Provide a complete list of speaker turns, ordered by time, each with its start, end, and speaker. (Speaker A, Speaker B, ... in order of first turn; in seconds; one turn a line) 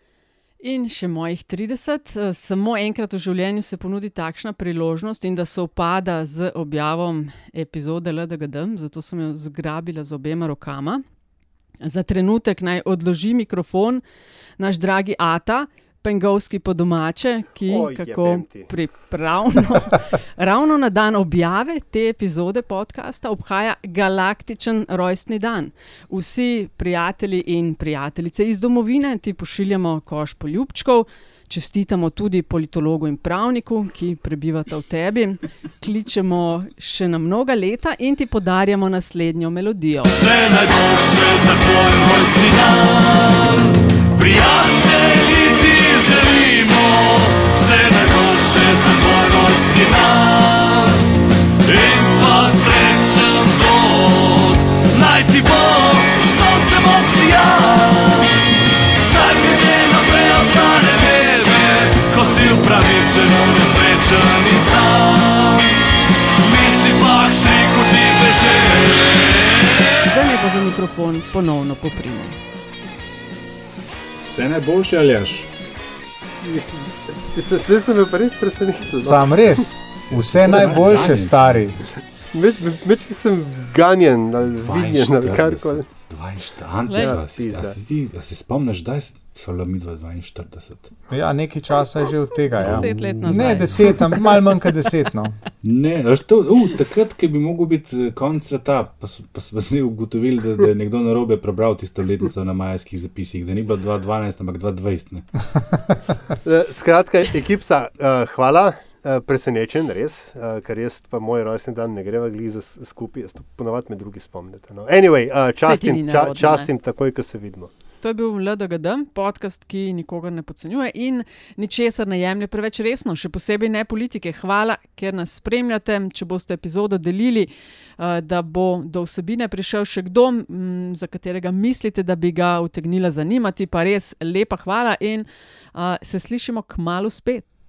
Speaker A: 0.6-11.0
Speaker A: 11.8-14.0
Speaker A: 14.6-40.1
Speaker B: 17.7-18.7
Speaker C: 40.1-51.0
Speaker C: 51.6-58.4
Speaker C: 59.0-65.7
Speaker C: 66.4-69.8
Speaker A: 70.0-72.4
Speaker D: 74.2-75.5
Speaker B: 76.4-79.5
Speaker E: 78.9-81.8
Speaker D: 80.0-81.7
Speaker B: 82.3-85.8
Speaker D: 84.5-90.9
Speaker A: 86.9-87.2
Speaker B: 87.0-87.8
Speaker E: 91.1-95.4
Speaker D: 92.6-94.0
Speaker A: 92.6-94.3
Speaker D: 95.6-105.2
Speaker B: 106.4-117.7
Speaker A: 115.6-116.7
Speaker A: 118.0-137.4